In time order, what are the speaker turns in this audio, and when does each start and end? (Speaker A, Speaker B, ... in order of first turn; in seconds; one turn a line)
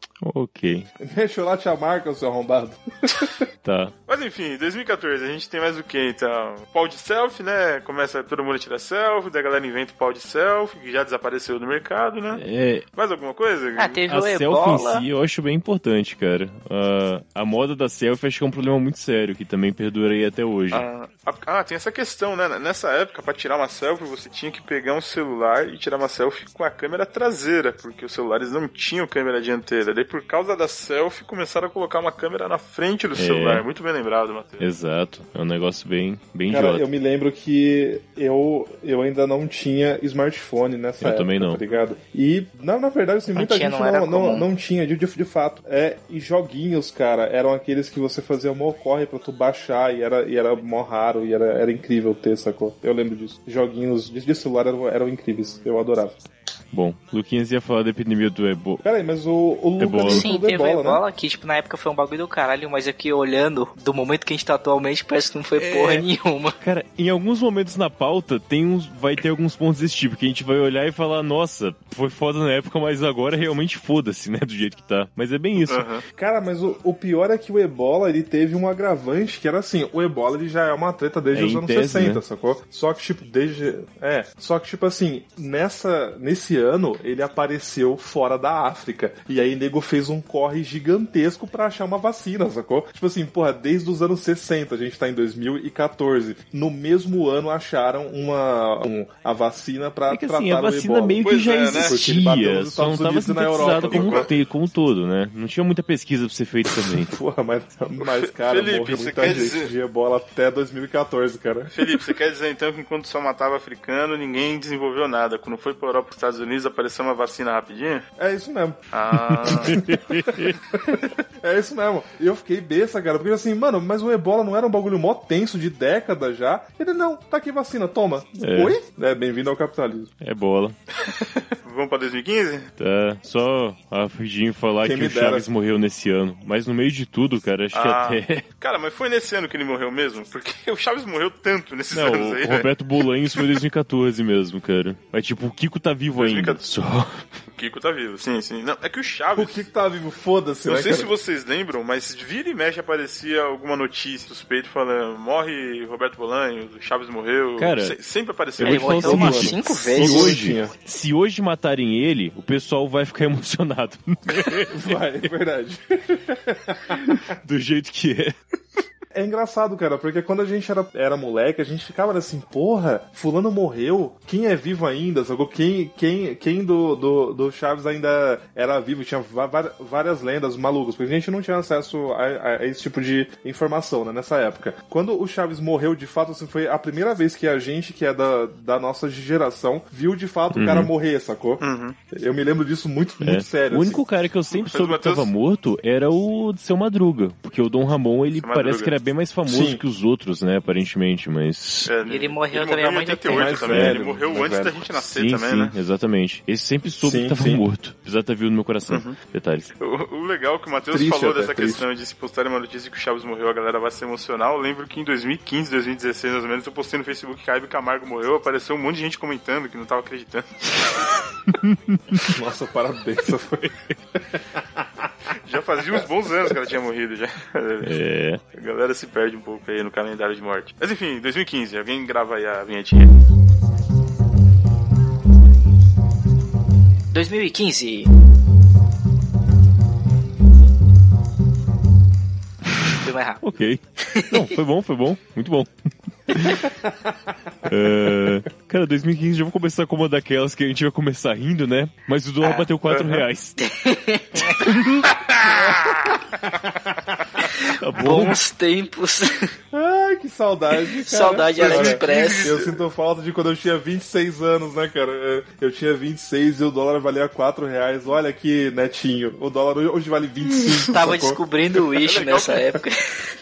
Speaker A: 0.2-0.9
Speaker B: 1.0-3.5
Speaker A: 3.6-3.9
Speaker C: 4.1-12.4
Speaker A: 12.3-12.8
Speaker C: 12.9-14.0
Speaker D: 13.8-15.1
Speaker A: 14.1-20.9
Speaker C: 20.7-34.7
Speaker A: 33.1-33.6
Speaker A: 34.6-36.8
Speaker B: 36.5-56.2
Speaker A: 41.0-41.6
Speaker D: 43.3-44.5
Speaker A: 56.7-58.8
Speaker B: 58.8-61.0
Speaker A: 59.8-60.3
Speaker D: 60.0-66.6
Speaker A: 65.5-66.1
Speaker A: 66.6-75.8
Speaker C: 75.6-76.0
Speaker B: 76.2-104.3
Speaker A: 81.3-82.2
Speaker A: 100.1-107.2
Speaker C: 101.2-102.0
Speaker C: 103.7-104.3
Speaker B: 107.0-112.0
Speaker C: 108.0-109.7
Speaker C: 111.7-118.0
Speaker B: 118.2-118.8
Speaker C: 118.9-119.8
Speaker A: 119.3-120.6
Speaker B: 119.4-130.1
Speaker A: 128.4-128.8
Speaker A: 130.2-130.8
Speaker C: 131.2-132.7
Speaker A: 132.8-138.4
Speaker B: 134.8-135.5
Speaker C: 137.7-142.7
Speaker A: 141.9-147.2
Speaker C: 143.3-143.6
Speaker C: 146.1-146.6
Speaker C: 147.5-149.7
Speaker B: 149.3-151.1
Speaker C: 150.7-159.2
Speaker A: 157.6-157.9
Speaker A: 158.6-164.9
Speaker D: 158.6-160.4
Speaker B: 159.0-160.7
Speaker B: 164.6-167.2
Speaker A: 166.9-168.3
Speaker B: 169.1-194.0
Speaker A: 190.5-190.9
Speaker C: 191.6-191.9
Speaker A: 193.2-201.9
Speaker C: 194.5-195.3
Speaker C: 198.3-198.9
Speaker B: 199.4-199.8
Speaker C: 201.8-205.7
Speaker D: 202.0-203.6
Speaker B: 203.3-204.9
Speaker A: 203.7-204.0
Speaker A: 205.1-209.7
Speaker B: 207.0-207.6
Speaker C: 208.9-209.2
Speaker C: 209.8-220.4
Speaker B: 210.9-211.8
Speaker A: 221.5-222.3
Speaker B: 222.2-225.1
Speaker C: 225.4-228.0
Speaker B: 225.9-226.5
Speaker A: 227.8-228.4
Speaker C: 228.5-233.1
Speaker D: 237.1-238.1
Speaker D: 243.0-243.4
Speaker A: 243.4-245.7
Speaker D: 244.1-244.5
Speaker A: 246.3-246.7
Speaker A: 247.6-253.7
Speaker D: 252.4-252.7
Speaker C: 252.9-253.3
Speaker D: 253.6-254.7
Speaker A: 254.3-255.1
Speaker B: 255.5-255.9
Speaker C: 255.5-256.1
Speaker D: 257.4-259.5
Speaker A: 257.7-258.4
Speaker B: 259.7-271.4
Speaker D: 261.0-262.5
Speaker C: 261.6-262.8
Speaker D: 270.8-273.2
Speaker C: 272.0-272.8